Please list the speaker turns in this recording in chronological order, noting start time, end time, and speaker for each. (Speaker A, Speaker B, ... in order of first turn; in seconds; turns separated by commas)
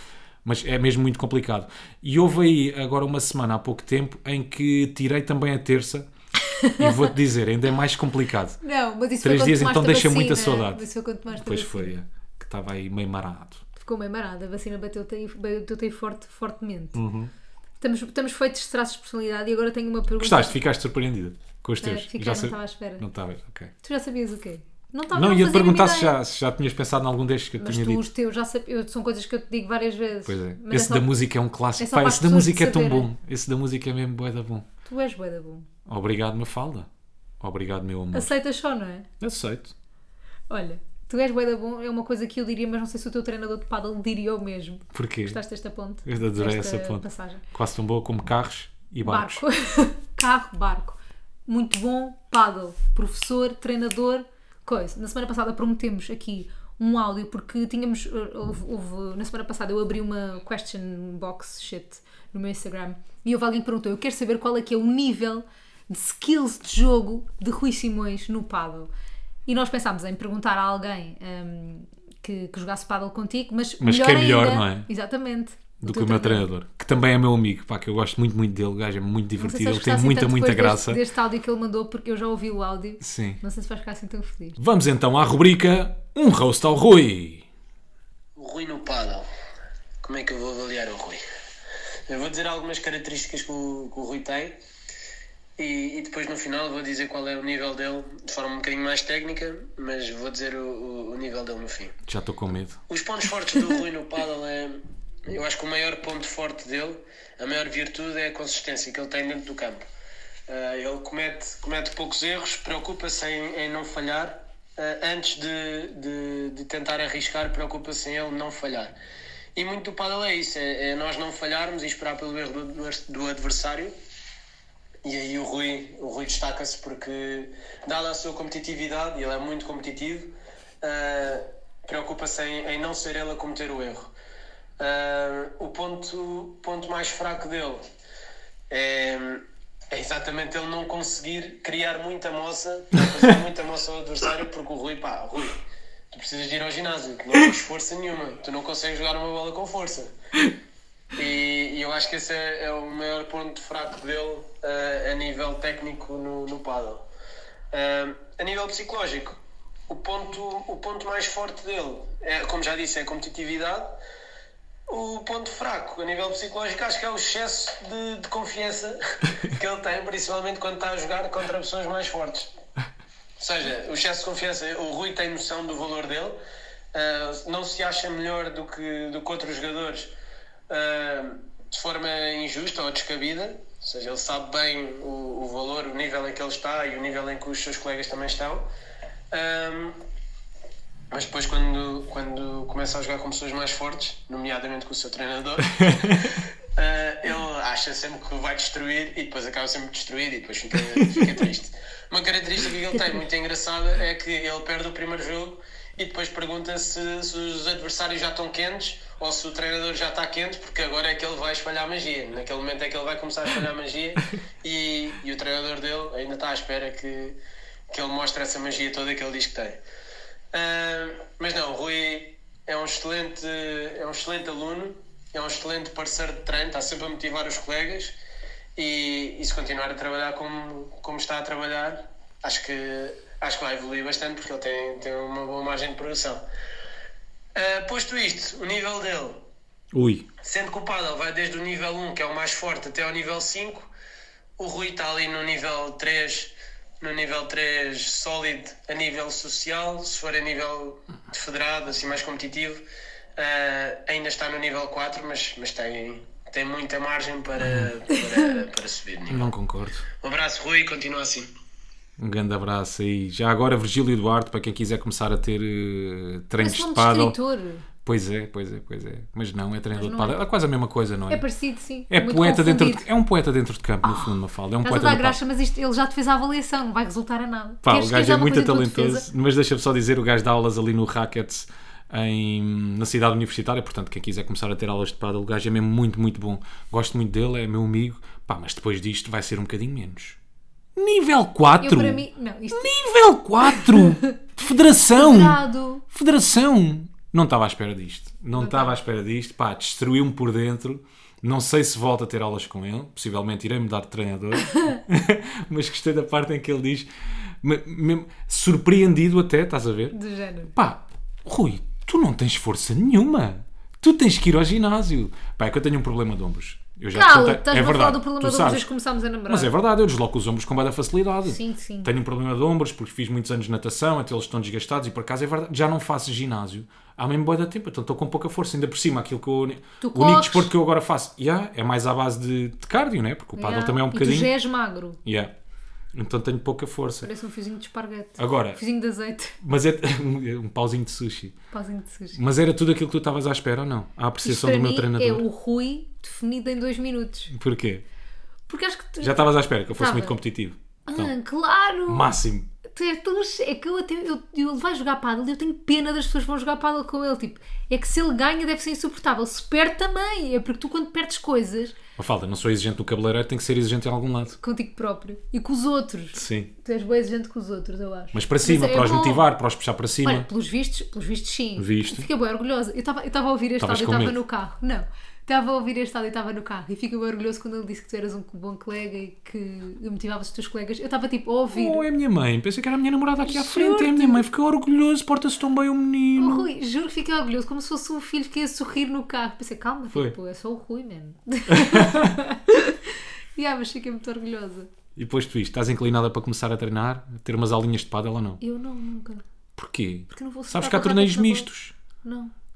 Speaker A: 0.4-6.1, Speaker B: 6.4-7.1, Speaker A: 6.8-8.6, Speaker B: 8.6-11.9, Speaker A: 9.2-13.6, Speaker B: 13.8-17.0, Speaker A: 16.9-17.3, Speaker B: 17.8-20.6, Speaker A: 20.2-23.7, Speaker B: 21.8-23.0, Speaker B: 23.8-26.2, Speaker A: 25.1-28.0, Speaker B: 27.6-31.1, Speaker A: 30.2-34.6, Speaker B: 31.8-33.1, Speaker B: 34.8-35.7, Speaker A: 35.9-36.9, Speaker A: 37.4-38.3, Speaker B: 38.1-39.1, Speaker A: 39.2-39.7, Speaker B: 40.5-47.4, Speaker A: 44.9-45.4, Speaker A: 46.0-49.4, Speaker B: 49.0-68.9, Speaker B: 69.5-76.5, Speaker A: 73.8-74.9, Speaker A: 75.8-81.0, Speaker B: 79.4-84.6, Speaker A: 83.0-83.4, Speaker A: 84.6-87.5, Speaker C: 88.3-89.2, Speaker C: 90.0-91.2, Speaker C: 92.1-94.6, Speaker C: 95.6-101.9, Speaker A: 102.0-102.8, Speaker C: 102.9-109.8, Speaker C: 110.5-118.9, Speaker C: 119.5-123.9, Speaker C: 125.0-134.1, Speaker C: 134.8-137.8, Speaker C: 138.7-150.1, Speaker C: 151.1-157.1, Speaker C: 157.7-164.0, Speaker C: 164.9-172.5, Speaker C: 173.4-176.4, Speaker C: 176.9-180.1, Speaker C: 180.7-188.7, Speaker C: 189.3-190.0, Speaker C: 191.1-217.4, Speaker A: 195.8-196.1, Speaker A: 200.9-201.3, Speaker C: 217.9-219.8, Speaker C: 220.5-228.2, Speaker C: 228.8-236.4, Speaker C: 237.5-239.4, Speaker A: 239.9-240.3, Speaker C: 240.4-243.9, Speaker C: 244.6-252.8, Speaker C: 253.3-259.5, Speaker A: 257.6-257.9, Speaker A: 259.3-260.1, Speaker C: 260.2-261.5, Speaker A: 262.2-267.4, Speaker B: 266.6-267.9, Speaker A: 268.0-271.4, Speaker B: 269.9-270.4, Speaker B: 271.3-273.1, Speaker A: 272.1-275.4, Speaker B: 274.0-279.2, Speaker A: 277.8-290.4, Speaker A: 290.9-310.1, Speaker B: 291.8-292.9, Speaker B: 293.7-294.3, Speaker B: 295.1-296.0, Speaker B: 298.6-299.0, Speaker B: 310.1-310.7, Speaker A: 310.7-318.9, Speaker B: 317.1-319.7, Speaker A: 319.5-334.5, Speaker B: 321.5-322.1, Speaker B: 330.0-330.7, Speaker B: 333.6-335.2, Speaker A: 335.2-335.5, Speaker A: 336.1-337.3, Speaker B: 337.2-339.6, Speaker A: 338.4-338.8, Speaker A: 339.6-341.6, Speaker B: 341.7-342.4, Speaker A: 342.3-345.4, Speaker B: 344.4-347.5, Speaker A: 347.5-348.0, Speaker B: 348.7-350.4, Speaker A: 349.2-351.3, Speaker B: 351.1-352.3, Speaker A: 352.1-352.7, Speaker B: 352.9-361.9, Speaker A: 362.2-364.6, Speaker B: 364.5-369.5, Speaker A: 366.3-366.7, Speaker A: 368.3-370.5, Speaker B: 370.2-382.0, Speaker A: 371.8-372.3, Speaker A: 373.8-374.4, Speaker A: 381.7-386.6, Speaker B: 383.4-384.4, Speaker B: 386.4-394.9, Speaker A: 391.7-392.4, Speaker A: 395.1-398.6, Speaker B: 398.6-399.4, Speaker A: 399.8-401.9, Speaker B: 400.3-401.7, Speaker B: 402.2-402.5